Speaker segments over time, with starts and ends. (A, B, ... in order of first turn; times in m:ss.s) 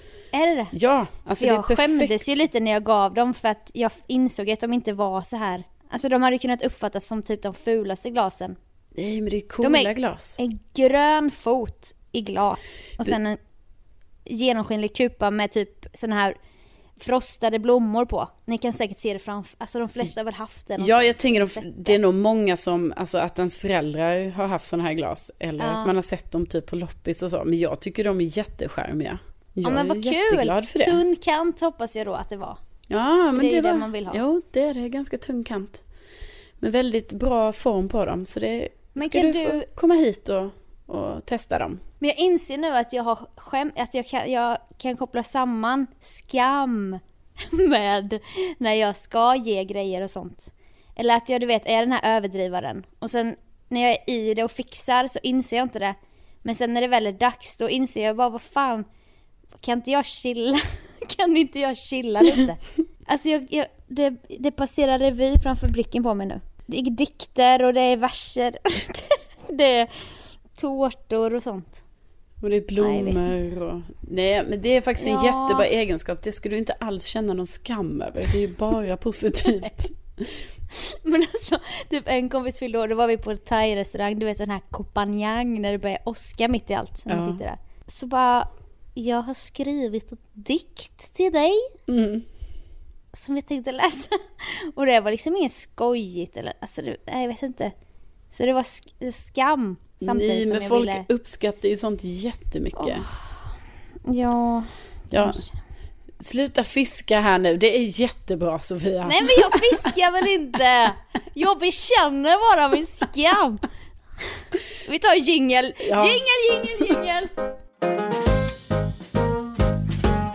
0:00.3-0:00.7 A
0:00.7-0:02.2 B
0:01.4-0:08.6 A
0:08.9-0:10.4 B
0:09.6-0:13.4 A
0:14.3-0:16.3 A
0:17.0-0:22.0 A
0:20.8-0:31.0 B
0:25.6-0:25.9 A
0:29.6-0:32.6 A
0:32.9-0:35.8 B
0:33.3-0:34.2 A
0:36.6-0:41.8 B
0:39.0-0:39.7 A
0:42.0-0:58.8 A
0:59.6-1:11.8 A
1:12.4-1:20.4 B
1:12.8-1:13.3 A
1:15.0-1:15.7 A
1:20.7-1:31.7 A
1:27.1-1:27.4 B
1:31.9-1:32.2 B
1:33.1-1:37.7 A
1:38.3-1:41.0 A
1:40.0-1:43.1 B
1:42.8-1:43.4 A
1:44.0-1:45.5 A
1:45.1-1:45.4 B
1:46.2-1:49.9 B
1:49.0-1:53.6 A
1:54.8-1:57.3 A
1:55.8-1:56.2 B